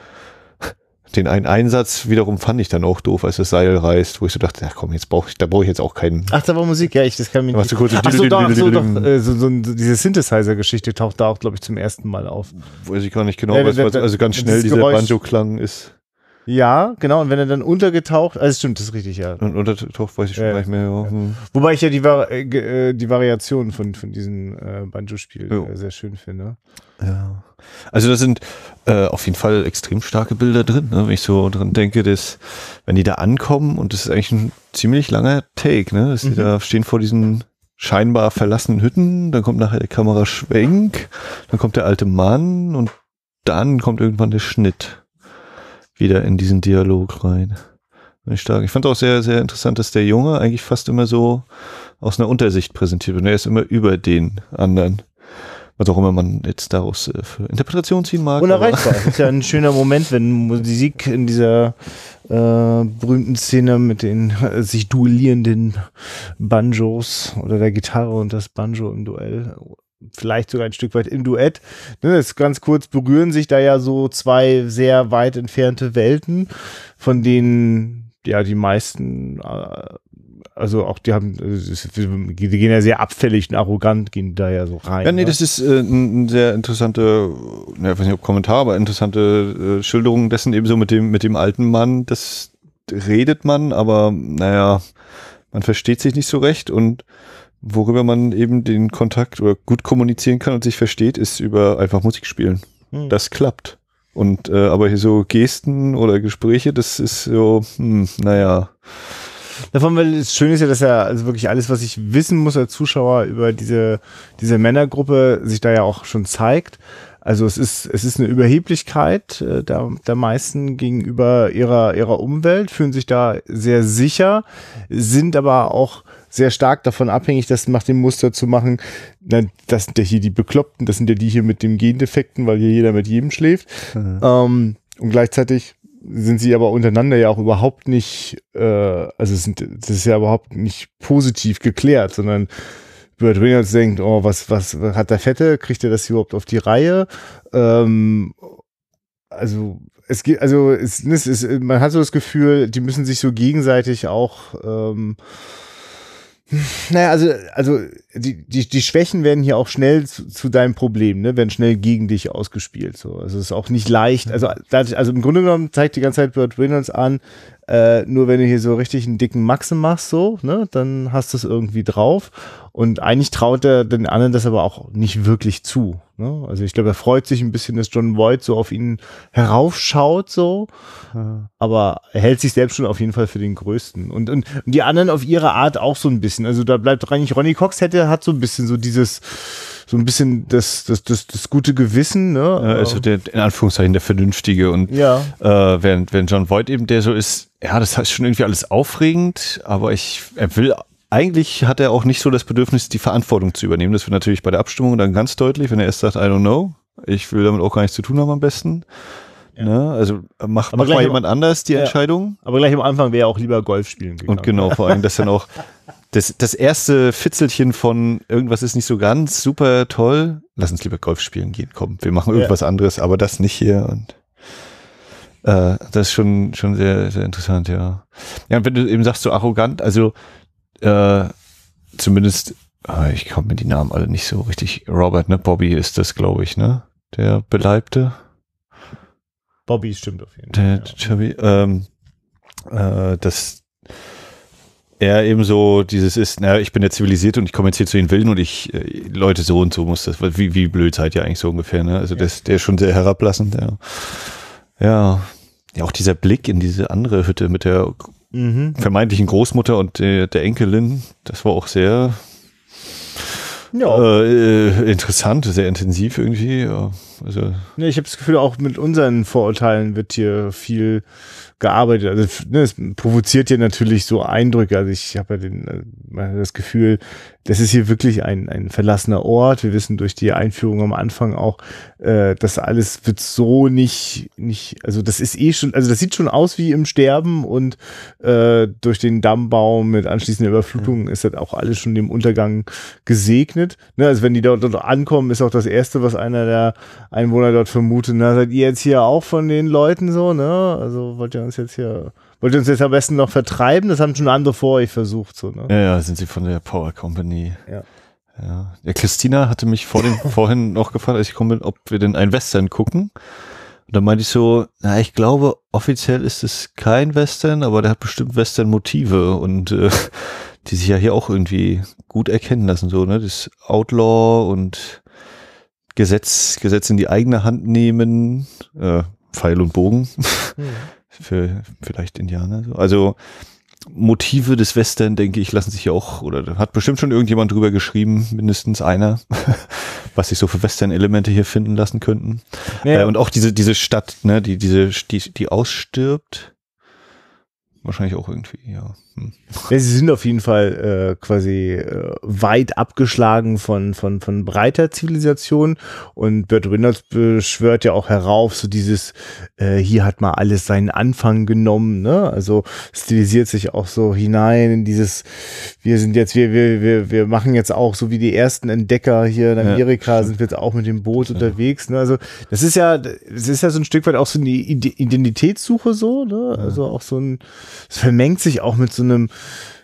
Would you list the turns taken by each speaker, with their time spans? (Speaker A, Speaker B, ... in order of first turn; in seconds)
Speaker A: 0.6-6.3, 7.5-9.1, 12.5-15.9, 19.4-21.4, 27.0-45.0, 46.0-47.6, 48.2-51.5, 52.0-59.3, 85.0-94.8, 95.5-97.0, 97.6-109.0, 133.9-134.2, 181.2-181.5, 192.6-208.9, 209.6-212.4, 214.3-215.6, 216.1-224.2, 225.4-230.2, 230.8-231.3, 232.0-238.2, 240.5-241.9, 242.7-243.7, 245.0-258.2, 258.8-262.2, 263.9-267.7, 305.7-307.6, 308.4-313.1, 313.9-325.0, 325.9-333.2, 333.9-346.5, 347.8-349.6, 369.6-370.3
Speaker B: 6.3-12.5, 13.5-15.2, 16.5-19.4, 20.4-26.6, 36.2-36.5, 58.4-80.0, 80.6-85.3, 109.7-142.5, 143.2-148.6, 149.3-155.2, 156.5-180.7, 181.6-193.0, 194.9-195.3, 210.7-211.2, 211.7-215.0, 239.7-241.0, 258.3-258.8, 263.7-264.1, 267.8-271.1, 271.6-305.7, 330.6-330.9, 342.8-343.1, 349.7-379.5